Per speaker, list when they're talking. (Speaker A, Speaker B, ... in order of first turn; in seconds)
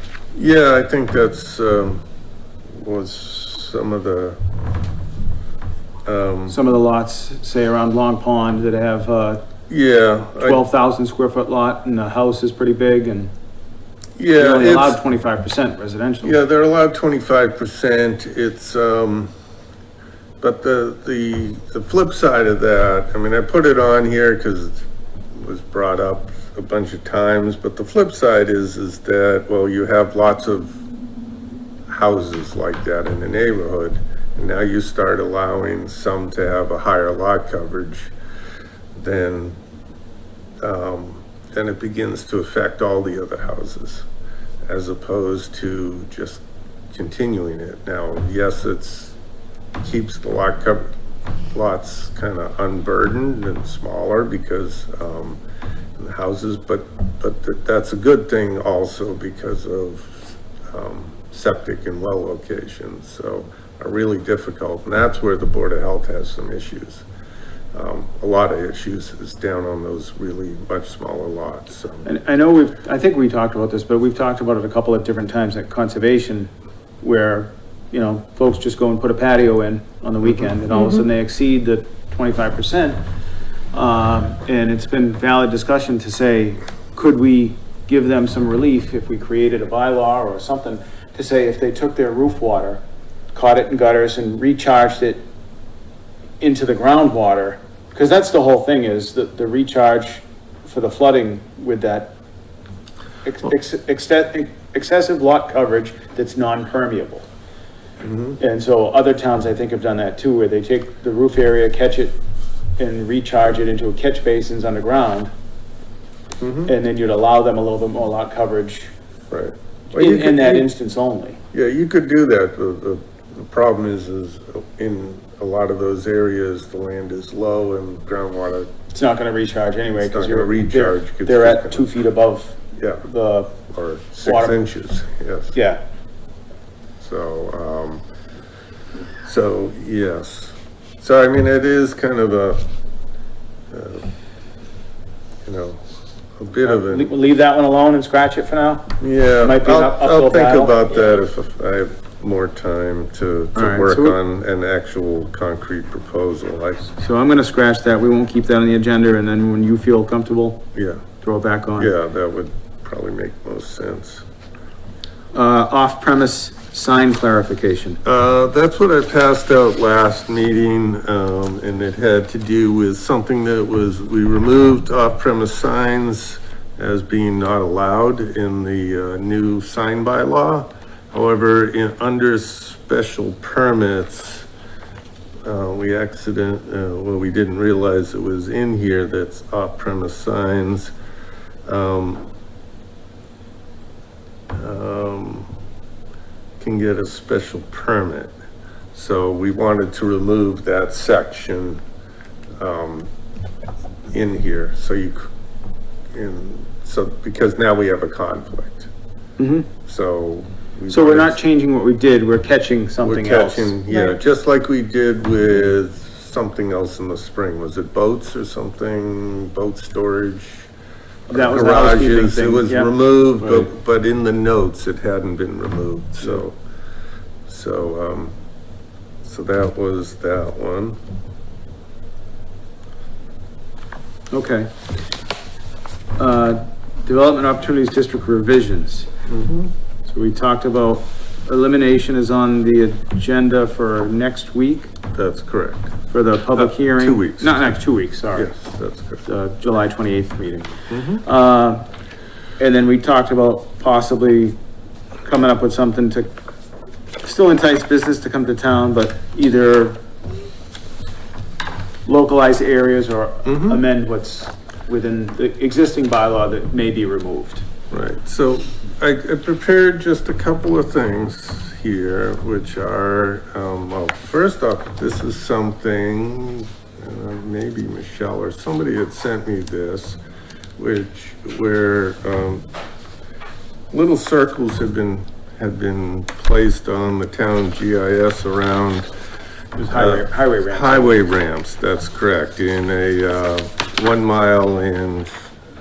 Speaker A: 0.3-2.0, 2.7-4.4, 6.1-6.6, 9.7-10.6, 14.2-15.0, 16.2-19.3, 20.4-24.8, 25.4-30.8, 31.9-38.1, 39.0-39.6, 40.6-44.1, 44.7-49.2, 49.8-50.9, 51.5-55.4, 56.0-67.0, 67.7-72.1, 108.0-108.4, 116.4-116.7, 119.3-120.7, 121.5-128.7, 129.9-131.9, 132.8-133.1, 133.7-135.6, 137.0-138.0, 139.2-142.6, 143.7-144.1, 145.4-145.8, 146.4-147.1, 149.0-156.9, 160.8-161.0, 161.8-164.2, 168.1-184.5, 185.4-190.9, 191.7-192.3, 194.5-195.6, 196.6-198.3, 198.9-201.8, 202.6-203.1, 204.1-205.2, 206.1-208.9, 209.9-211.4, 213.0-220.7, 221.3-226.6, 227.5-228.3, 229.2-231.0, 239.3-239.7, 245.1-245.9, 246.6-247.8, 248.3-249.2, 250.9-251.2, 263.5-263.8, 267.9-280.2, 280.8-282.6, 283.9-289.1, 289.9-295.3
Speaker B: 6.5-9.4, 10.4-13.3, 14.4-16.4, 72.0-83.0, 83.7-95.2, 96.4-102.2, 103.2-107.3, 108.4-112.2, 112.8-115.3, 116.7-118.9, 120.0-121.4, 128.9-133.6, 134.2-134.6, 135.5-135.8, 146.7-150.8, 153.6-154.2, 156.9-160.6, 161.2-161.9, 165.3-168.0, 209.4-209.7, 210.9-213.8, 221.3-223.7, 234.3-234.7, 236.2-239.1, 240.1-244.9, 246.1-248.5, 249.3-250.7, 251.2-251.8, 252.6-254.6, 255.2-256.4, 257.2-260.0, 262.1-267.6, 289.8-291.2